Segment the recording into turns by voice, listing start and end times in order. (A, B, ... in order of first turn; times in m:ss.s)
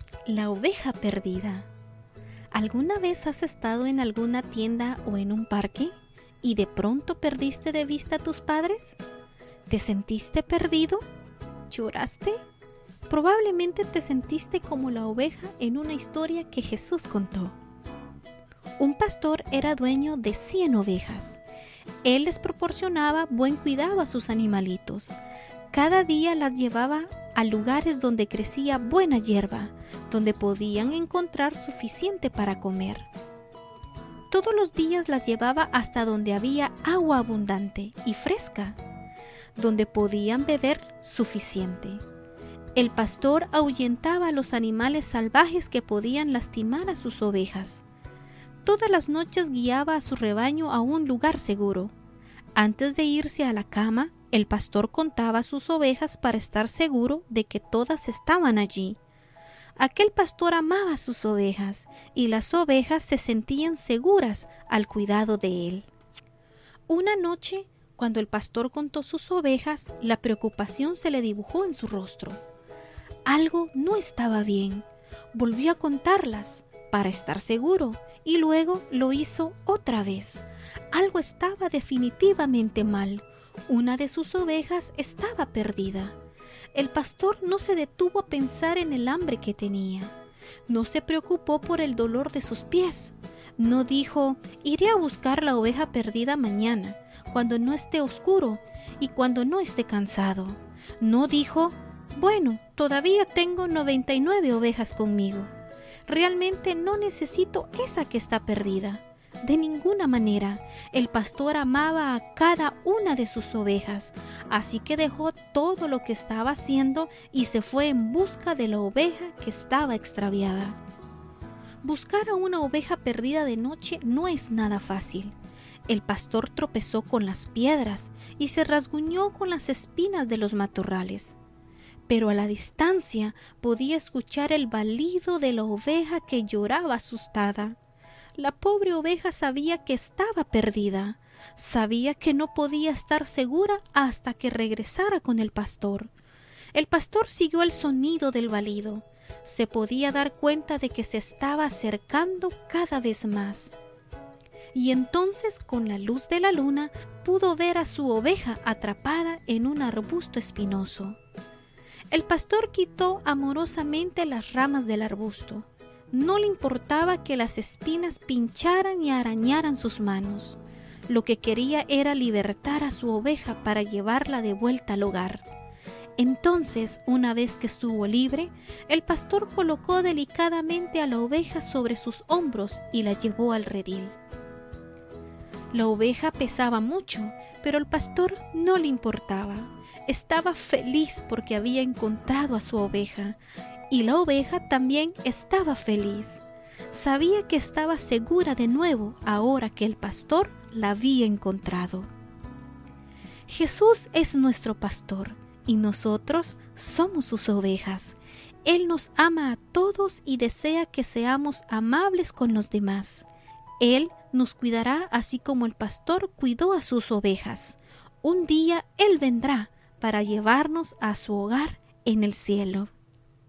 0:00.2-0:01.7 A
0:02.5-0:09.0 A
0:09.7-0:11.0 A
0:11.7-0:12.4 A
0:13.1-0:17.6 A
0:18.8-0:21.4 A
0:22.0-0:25.1 A
0:25.7-0:33.1 A
0:34.3-0:38.8 A
0:39.6-0:42.0 A
0:42.7-0:47.8 A
0:48.6-0:51.9 A
0:52.5-0:59.0 A
0:59.8-1:05.9 A
1:06.9-1:12.4 A
1:13.2-1:26.2 A
1:26.7-1:30.1 A
1:30.7-1:45.5 A
1:46.1-2:00.8 A
2:01.8-2:05.3 A
2:05.9-2:11.4 A
2:12.1-2:17.8 A
2:18.4-2:26.1 A
2:26.7-2:33.7 A
2:34.7-2:41.2 A
2:42.1-2:55.4 A
2:56.2-3:04.2 A
3:05.7-3:13.4 A
3:13.9-3:22.1 A
3:23.5-3:33.3 A
3:33.8-3:42.9 A